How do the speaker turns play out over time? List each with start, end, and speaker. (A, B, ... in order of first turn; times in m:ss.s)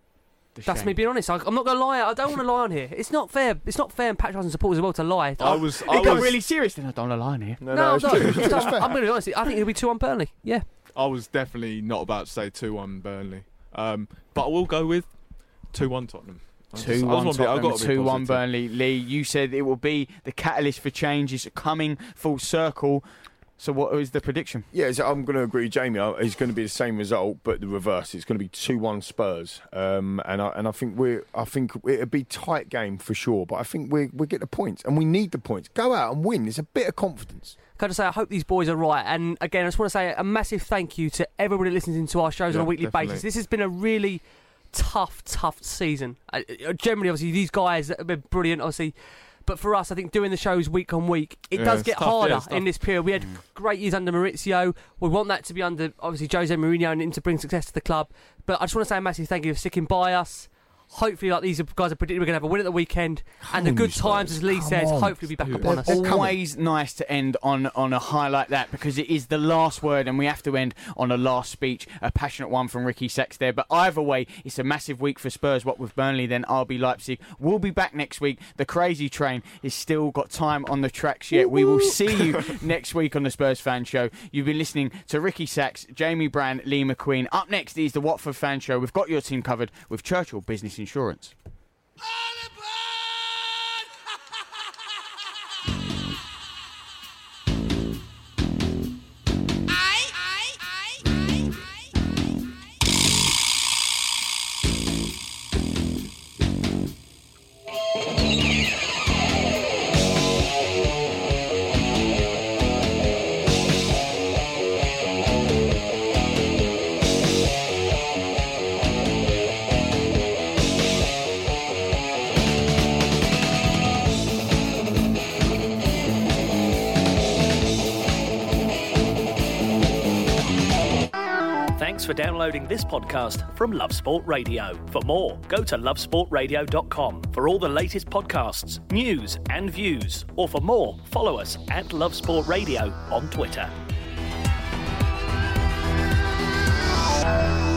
0:00.5-0:01.0 A
0:00.6-0:06.3 B
0:05.4-0:06.4 C
0:05.6-0:07.6 A
0:07.6-0:09.0 D
0:07.7-0:10.6 B
0:10.9-0:18.4 C
0:16.8-0:24.7 A
0:24.7-0:37.6 D
0:37.8-1:06.0 B
0:42.5-0:43.2 C
0:51.5-0:52.8 C
0:53.2-0:53.4 A
1:03.4-1:06.4 D
1:05.8-1:31.4 A
2:11.8-2:23.7 E